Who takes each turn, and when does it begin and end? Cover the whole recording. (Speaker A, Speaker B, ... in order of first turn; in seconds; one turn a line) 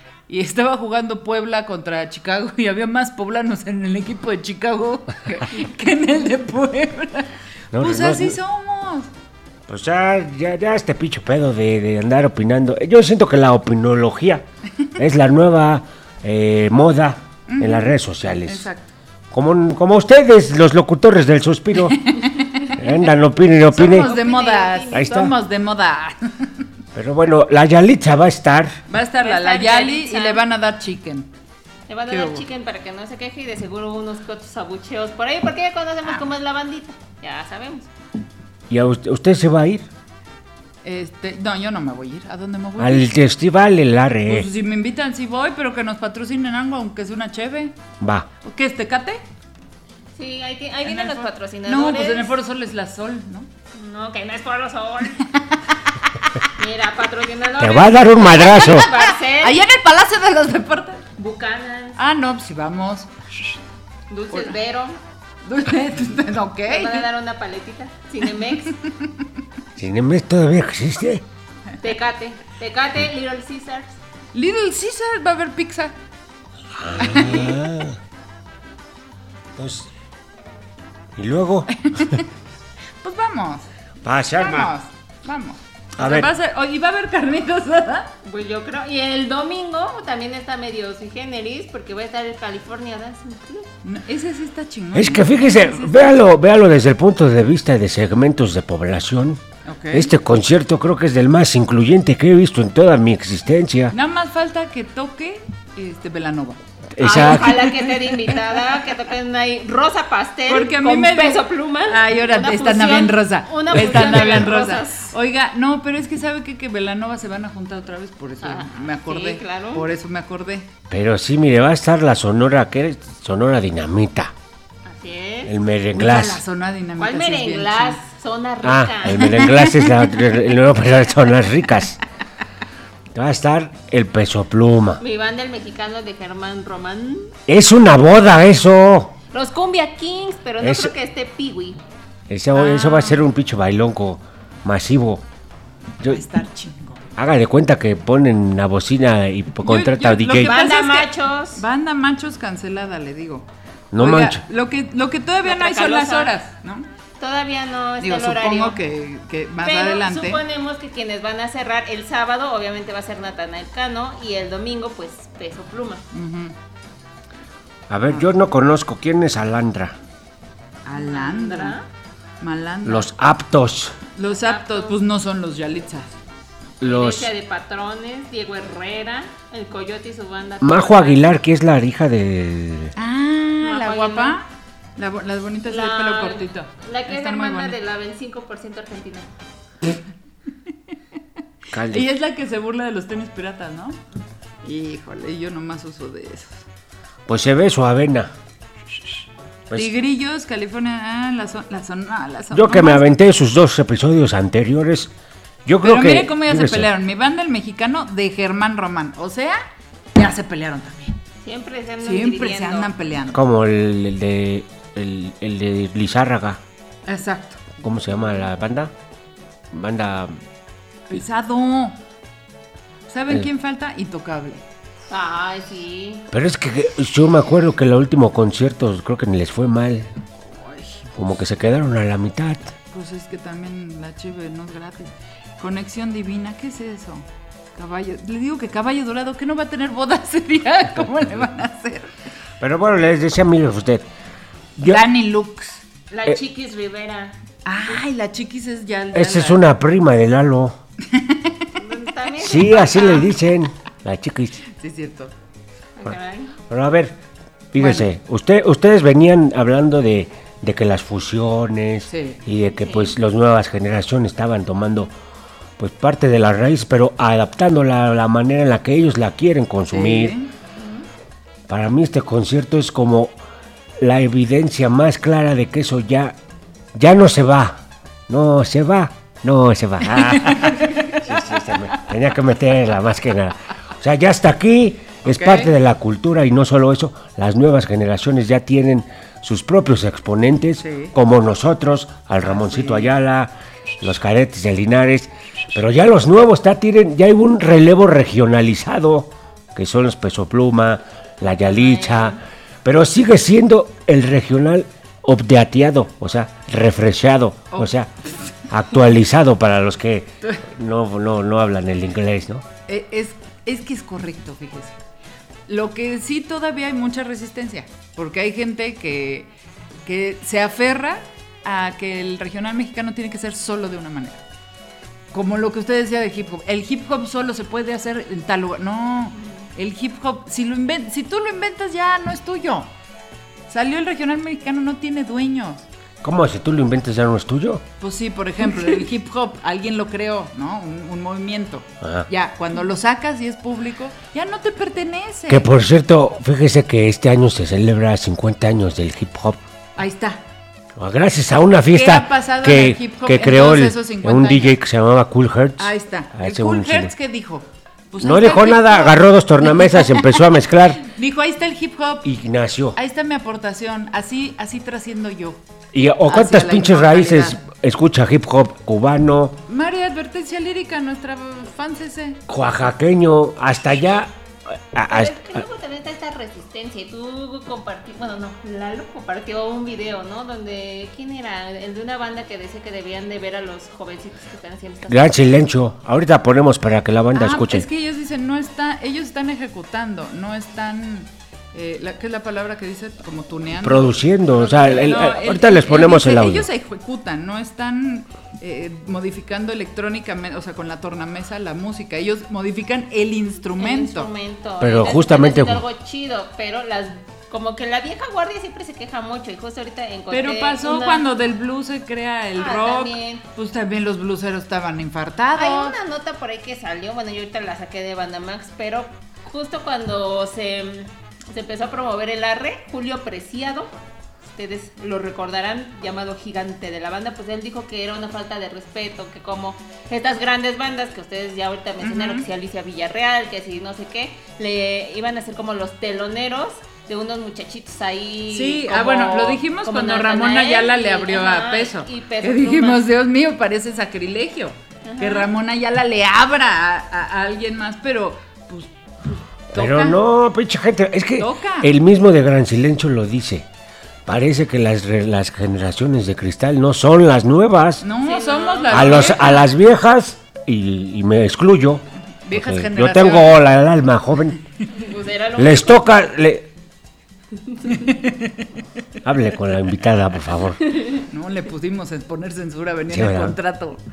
Speaker A: 0.3-9.1
Speaker B: 7.7-8.4
Speaker B: 9.7-14.4
Speaker B: 14.9-18.7
Speaker A: 17.5-18.9
Speaker B: 19.3-22.1
Speaker A: 21.8-22.9
Speaker B: 22.7-24.1
Speaker A: 23.7-26.5
Speaker C: 23.8-25.1
Speaker B: 24.9-25.3
Speaker B: 26.9-28.8
Speaker A: 28.9-31.3
Speaker C: 29.2-30.4
Speaker C: 31.9-37.9
Speaker A: 32.1-32.4
Speaker B: 38.7-39.9
Speaker A: 40.8-43.1
Speaker B: 42.8-44.5
Speaker A: 44.3-47.8
Speaker B: 48.0-48.3
Speaker A: 48.4-49.2
Speaker C: 50.1-52.3
Speaker A: 50.9-53.5
Speaker C: 53.7-55.2
Speaker C: 56.5-59.6
Speaker B: 57.6-58.9
Speaker A: 58.4-61.0
Speaker C: 61.2-62.0
Speaker A: 62.0-63.1
Speaker C: 64.1-65.0
Speaker A: 65.4-67.1
Speaker C: 66.7-68.8
Speaker B: 69.8-71.2
Speaker C: 71.8-74.0
Speaker A: 74.3-75.9
Speaker B: 76.8-78.0
Speaker A: 77.0-77.6
Speaker B: 79.5-79.9
Speaker B: 81.2-82.2
Speaker A: 81.8-82.2
Speaker A: 83.0-83.7
Speaker B: 84.0-84.7
Speaker A: 84.3-88.1
Speaker B: 86.0-86.3
Speaker C: 88.2-93.7
Speaker A: 93.8-96.1
Speaker B: 94.9-103.9
Speaker A: 99.7-100.1
Speaker A: 103.9-108.4
Speaker B: 107.0-107.7
Speaker C: 107.0-115.1
Speaker A: 110.5-120.7
Speaker C: 118.4-119.9
Speaker B: 120.9-124.3
Speaker C: 124.8-125.5
Speaker B: 125.5-126.4
Speaker A: 125.9-128.0
Speaker C: 127.0-129.4
Speaker B: 128.6-132.0
Speaker A: 129.2-130.0
Speaker B: 133.1-135.0
Speaker C: 135.0-137.3
Speaker B: 137.5-139.1
Speaker C: 139.3-141.8
Speaker B: 140.6-140.9
Speaker B: 142.3-145.2
Speaker A: 142.5-143.2
Speaker A: 146.1-147.1
Speaker B: 147.2-150.5
Speaker A: 149.6-156.9
Speaker C: 150.4-151.6
Speaker B: 153.9-154.4
Speaker C: 155.4-156.3
Speaker C: 157.2-158.8
Speaker A: 158.0-160.4
Speaker C: 159.6-166.0
Speaker A: 166.1-166.5
Speaker B: 167.9-169.9
Speaker A: 170.8-171.8
Speaker C: 170.9-171.9
Speaker A: 172.4-173.1
Speaker B: 172.8-174.0
Speaker A: 174.2-176.1
Speaker C: 174.2-175.0
Speaker B: 176.8-177.3
Speaker C: 176.8-181.3
Speaker B: 180.6-182.9
Speaker A: 182.9-184.4
Speaker C: 183.6-184.4
Speaker A: 185.0-187.8
Speaker C: 185.7-189.3
Speaker B: 191.7-192.1
Speaker A: 191.8-194.0
Speaker A: 194.6-196.6
Speaker B: 197.3-198.3
Speaker A: 199.7-203.1
Speaker B: 202.5-205.1
Speaker B: 205.7-206.9
Speaker A: 205.8-209.6
Speaker A: 210.1-211.2
Speaker C: 211.4-212.9
Speaker A: 212.0-213.4
Speaker B: 213.3-216.6
Speaker A: 217.1-217.7
Speaker B: 217.8-218.9
Speaker B: 219.7-220.4
Speaker A: 221.1-222.0
Speaker A: 223.1-224.6
Speaker C: 225.1-226.3
Speaker B: 226.3-230.1
Speaker A: 230.5-231.0
Speaker B: 231.1-232.8
Speaker A: 232.9-237.2
Speaker A: 237.8-242.1
Speaker B: 242.6-244.1
Speaker B: 244.8-245.0
Speaker A: 244.8-245.8
Speaker C: 246.1-247.4
Speaker A: 247.6-249.6
Speaker B: 249.1-250.8
Speaker A: 251.1-251.6
Speaker C: 251.7-253.3
Speaker B: 252.4-254.6
Speaker A: 254.7-255.3
Speaker C: 256.0-256.5
Speaker B: 256.7-257.1
Speaker B: 257.7-265.1
Speaker A: 257.8-258.1
Speaker A: 262.1-262.4
Speaker C: 262.8-263.1
Speaker B: 265.8-270.4
Speaker A: 269.9-270.5
Speaker C: 270.8-271.0
Speaker B: 271.7-273.3
Speaker B: 274.0-276.4
Speaker B: 276.9-308.1
Speaker A: 280.2-281.2
Speaker A: 285.2-285.7
Speaker A: 290.8-291.1
Speaker A: 292.4-293.1
Speaker C: 301.6-302.4
Speaker B: 308.7-312.6
Speaker A: 312.9-315.0
Speaker A: 315.7-319.5
Speaker A: 320.1-324.4
Speaker A: 325.3-332.9
Speaker A: 333.7-335.9
Speaker B: 336.2-337.8
Speaker A: 338.0-345.7
Speaker B: 342.0-342.3
Speaker B: 345.5-349.6
Speaker A: 349.9-350.4
Speaker B: 351.0-357.1
Speaker A: 351.9-354.8
Speaker A: 355.8-360.5
Speaker B: 358.2-361.1
Speaker A: 361.0-362.2
Speaker B: 362.2-363.0
Speaker A: 362.9-365.6
Speaker B: 365.9-369.6
Speaker A: 366.2-367.6
Speaker A: 369.7-372.4
Speaker B: 372.5-375.6
Speaker C: 375.1-385.4
Speaker B: 385.1-387.9
Speaker A: 387.3-404.3
Speaker B: 393.8-396.7
Speaker C: 403.8-411.2
Speaker B: 404.8-405.8
Speaker A: 410.3-415.9
Speaker C: 412.6-413.4
Speaker C: 415.5-423.9
Speaker C: 424.5-443.1
Speaker A: 432.0-432.4
Speaker A: 438.5-450.2
Speaker C: 445.0-445.5
Speaker B: 449.7-453.7
Speaker A: 451.4-451.9
Speaker B: 454.2-458.1
Speaker A: 458.0-459.6
Speaker C: 458.2-459.5
Speaker B: 458.9-464.6
Speaker A: 462.4-463.7
Speaker C: 464.9-466.1
Speaker B: 465.6-466.7
Speaker C: 467.7-468.1
Speaker A: 467.9-468.6
Speaker B: 469.2-470.8
Speaker C: 470.9-471.2
Speaker A: 471.2-474.0
Speaker B: 473.1-473.6